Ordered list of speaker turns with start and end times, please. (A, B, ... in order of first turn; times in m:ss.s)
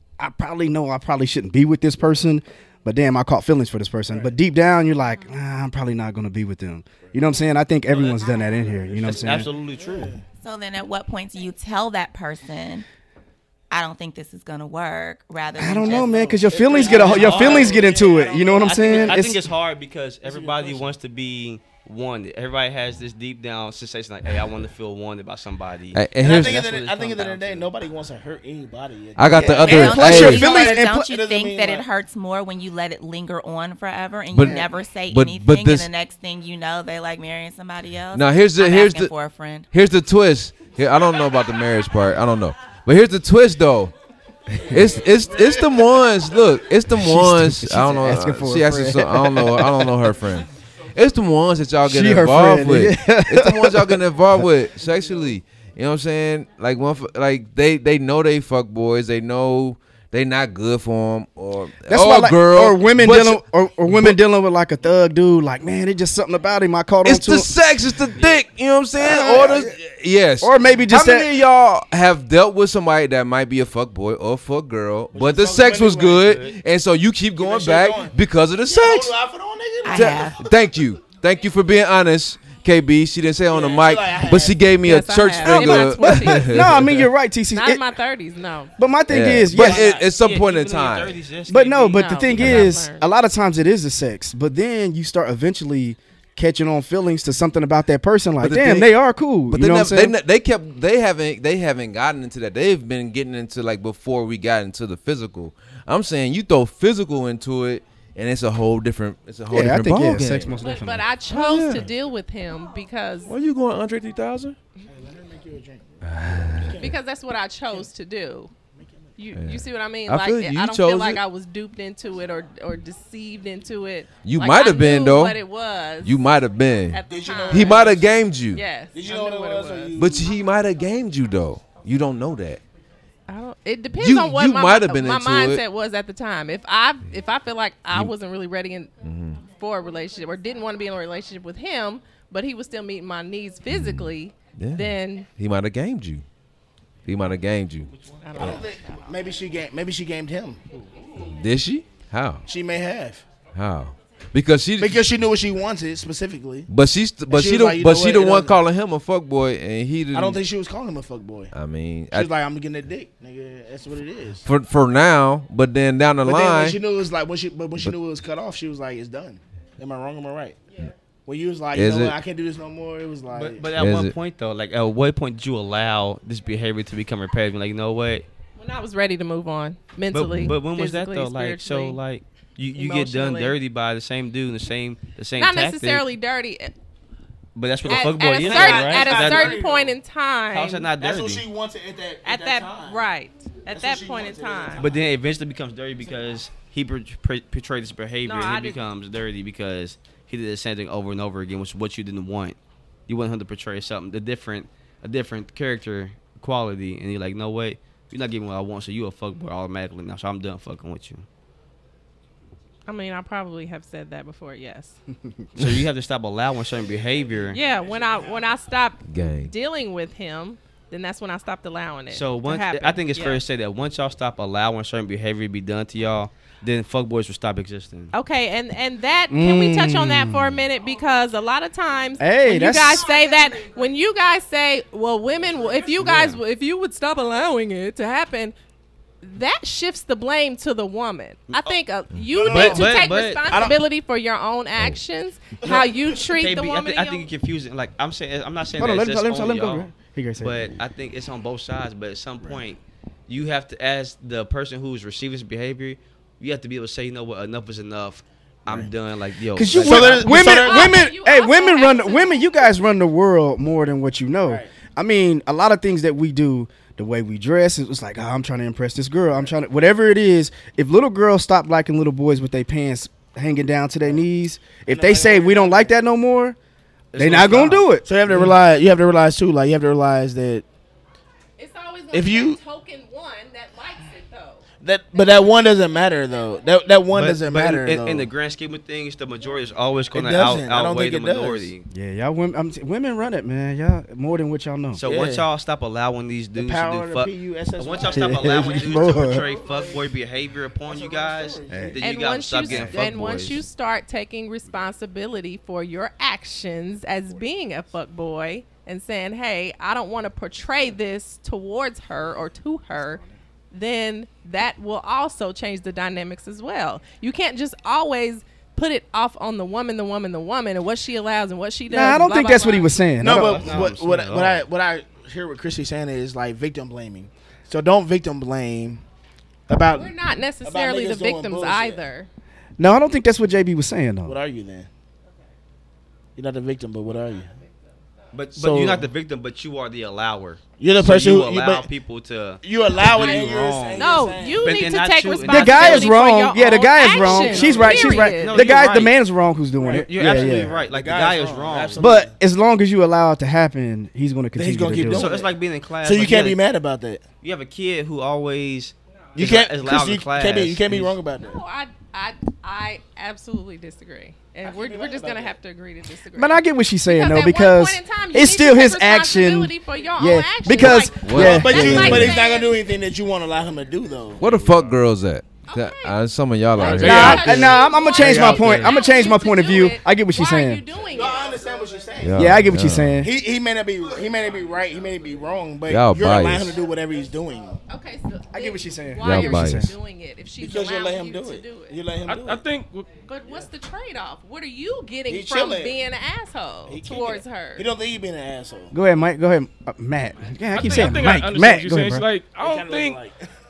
0:00.2-0:09.5 A
0:07.9-0:10.2 B
0:09.1-0:10.1 C
0:10.4-0:12.8 D
0:13.7-0:16.5 D
0:15.6-0:19.5 A
0:15.8-0:19.4 B
0:16.7-0:27.7 C
0:20.2-0:21.0 B
0:25.9-0:26.5 E
0:26.2-0:31.9 B
0:29.2-0:30.6 E
0:29.4-0:39.7 D
0:29.6-0:31.1 A
0:34.3-0:35.9 E
0:38.1-0:39.1 E
0:39.7-0:43.9 E
0:44.6-0:45.5 B
0:44.6-1:04.2 E
0:46.9-0:49.9 A
0:51.8-0:54.0 A
1:01.9-1:07.5 A
1:07.0-1:19.2 E
1:08.1-1:08.4 C
1:09.0-1:09.6 A
1:09.2-1:09.6 B
1:10.4-1:11.4 A
1:15.1-1:16.3 B
1:16.2-1:16.6 C
1:17.4-1:20.6 B
1:19.8-1:20.4 D
1:19.9-1:27.1 E
1:23.5-1:24.7 B
1:24.8-1:26.9 F
1:25.4-1:28.0 A
1:27.5-1:28.7 F
1:28.8-1:29.9 A
1:29.1-1:31.2 E
1:29.5-1:32.0 C
1:31.5-1:40.2 A
1:31.9-1:33.1 F
1:32.4-1:32.7 E
1:38.4-1:38.9 E
1:39.5-1:51.9 E
1:49.5-1:51.1 A
1:50.5-1:53.3 F
1:53.3-1:54.6 E
1:54.9-1:57.0 B
1:56.0-1:56.7 E
1:56.8-1:58.5 F
1:58.8-1:59.2 B
1:59.2-2:06.2 F
1:59.3-2:01.2 E
2:04.2-2:05.4 E
2:06.0-2:08.7 E
2:06.9-2:10.0 F
2:07.0-2:08.1 B
2:08.9-2:10.3 B
2:10.0-2:12.6 E
2:13.3-2:25.3 F
2:14.0-2:15.6 E
2:19.0-2:19.4 E
2:23.7-2:26.2 E
2:27.1-2:28.5 E
2:28.2-2:29.0 F
2:28.3-2:30.9 B
2:31.2-2:32.5 E
2:32.5-2:33.3 B
2:33.5-2:35.1 E
2:34.8-2:36.7 B
2:36.7-2:40.4 E
2:37.3-2:38.6 B
2:40.1-2:41.5 B
2:41.5-2:42.3 E
2:42.1-2:44.5 B
2:44.4-2:46.8 E
2:46.2-2:50.6 B
2:51.3-2:53.7 B
2:51.7-2:52.2 E
2:53.3-2:58.3 C
2:53.8-2:54.2 E
2:58.6-3:02.0 F
3:00.1-3:06.1 C
3:00.3-3:00.6 E
3:02.7-3:03.6 F
3:05.4-3:06.7 F
3:07.6-3:09.6 C
3:07.8-3:10.9 F
3:07.9-3:10.0 B
3:10.5-3:11.5 C
3:10.9-3:13.0 B
3:12.2-3:14.8 F
3:13.7-3:15.1 B
3:14.8-3:31.3 C
3:18.2-3:18.8 F
3:32.9-3:35.0 F
3:35.6-3:37.6 C
3:37.5-3:43.4 F
3:39.0-3:39.5 E
3:42.1-3:48.1 C
3:48.1-3:58.6 F
3:49.3-3:50.6 A
3:52.2-3:53.1 A
3:55.4-3:56.2 B
3:59.2-4:07.3 F
4:01.5-4:01.8 C
4:02.3-4:03.8 B
4:02.4-4:03.6 C
4:05.6-4:06.3 B
4:05.7-4:20.4 C
4:08.8-4:10.6 A
4:12.4-4:12.6 B
4:19.5-4:36.6 A
4:19.7-4:21.0 B
4:20.3-4:22.8 F
4:24.4-4:24.7 B
4:34.9-4:35.9 B
4:37.1-4:38.5 C
4:37.2-4:38.1 A
4:37.6-4:40.6 B
4:41.6-4:44.6 F
4:42.1-4:42.6 B
4:44.8-4:48.3 B
4:45.2-4:45.5 F
4:47.1-4:51.8 C
4:50.1-4:51.7 B
4:51.9-4:55.0 A
4:55.0-5:03.6 C
4:55.0-4:55.5 B
4:56.6-5:00.2 B
4:58.1-4:59.5 A
5:00.8-5:02.0 B
5:01.7-5:02.0 A
5:02.0-5:23.0 F
5:02.7-5:02.9 A
5:21.9-5:23.7 A
5:23.2-5:29.0 B
5:23.2-5:24.7 C
5:29.7-5:32.0 B
5:29.9-5:32.3 F
5:32.8-5:34.4 A
5:34.3-5:34.9 B
5:36.4-5:37.5 B
5:38.3-5:46.2 C
5:38.6-5:39.1 B
5:40.8-5:41.9 B
5:42.6-5:44.9 B
5:44.0-5:49.1 F
5:45.5-5:50.8 A
5:47.1-5:48.3 B
5:48.3-5:49.2 C
5:49.8-5:52.3 B
5:49.8-5:52.1 C
5:52.0-5:55.3 A
5:54.6-5:57.2 B
5:55.1-5:56.6 C
5:57.4-6:01.2 C
5:59.4-6:01.6 B
6:01.4-6:12.9 F
6:04.6-6:05.6 B
6:06.3-6:12.4 A
6:11.1-6:12.4 E
6:11.3-6:15.0 B
6:14.4-6:17.5 E
6:15.6-6:16.2 F
6:16.8-6:21.6 F
6:16.8-6:17.7 B
6:16.8-6:20.8 A
6:16.8-6:18.9 G
6:21.1-6:27.8 B
6:22.2-6:23.2 E
6:22.3-6:23.3 A
6:25.9-6:26.8 E
6:27.9-6:32.0 F
6:28.5-6:30.0 A
6:29.2-6:29.9 E
6:30.6-6:32.7 B
6:32.3-6:33.2 G
6:33.1-6:37.9 F
6:35.3-6:36.0 B
6:36.9-6:38.9 B
6:38.9-6:42.3 A
6:40.7-6:43.2 G
6:42.6-6:43.5 B